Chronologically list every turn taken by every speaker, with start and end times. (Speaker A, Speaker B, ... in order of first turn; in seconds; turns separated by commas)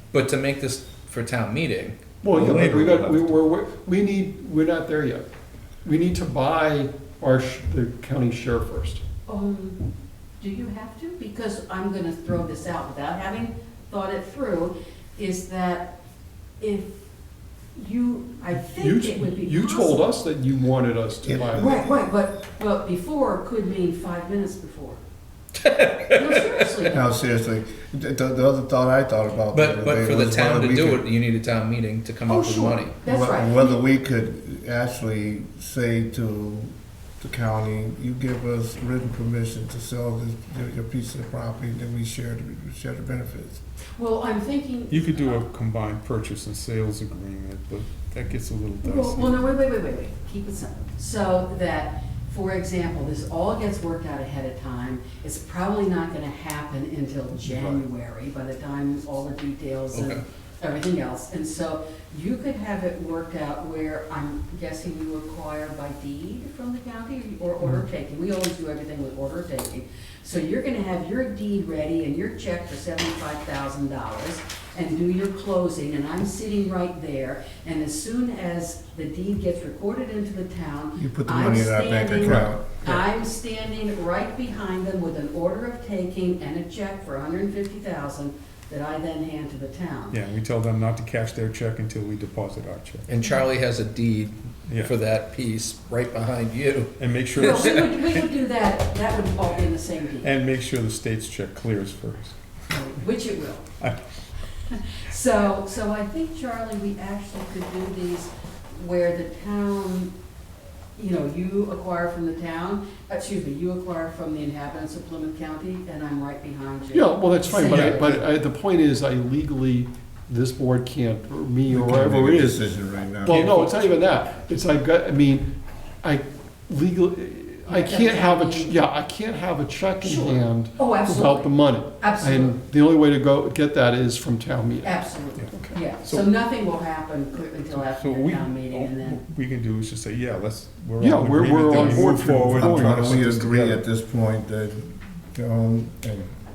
Speaker A: 0.1-2.7, Speaker B: 2.2-5.3, Speaker C: 2.3-3.4, Speaker B: 5.8-9.0, Speaker D: 9.3-9.8, Speaker D: 10.4-15.9, Speaker D: 16.6-17.0, Speaker D: 17.8-20.1, Speaker B: 18.8-21.7, Speaker E: 21.2-21.9, Speaker D: 21.5-25.0, Speaker A: 25.6-26.5, Speaker D: 26.1-27.1, Speaker E: 26.9-31.1, Speaker A: 29.5-33.0, Speaker D: 32.3-33.8, Speaker B: 33.1-33.4, Speaker E: 33.2-43.6, Speaker D: 44.0-45.5, Speaker C: 44.9-49.4, Speaker D: 48.8-90.2, Speaker B: 57.4-57.8, Speaker A: 59.9-60.2, Speaker E: 81.0-82.8, Speaker C: 82.2-82.5, Speaker C: 90.1-93.0, Speaker A: 93.1-96.9, Speaker C: 94.7-94.9, Speaker C: 97.0-98.3, Speaker D: 97.3-100.3, Speaker A: 97.5-97.8, Speaker C: 100.2-102.4, Speaker D: 102.7-103.7, Speaker D: 104.7-110.1, Speaker D: 111.0-118.2, Speaker B: 116.9-125.5, Speaker C: 117.7-118.1, Speaker E: 121.7-123.5, Speaker C: 123.3-123.9, Speaker B: 126.0-135.0, Speaker D: 127.7-128.8, Speaker D: 130.0-132.6, Speaker D: 134.8-139.2, Speaker C: 135.4-136.3, Speaker C: 137.7-143.8, Speaker B: 141.0-143.3, Speaker E: 141.7-146.3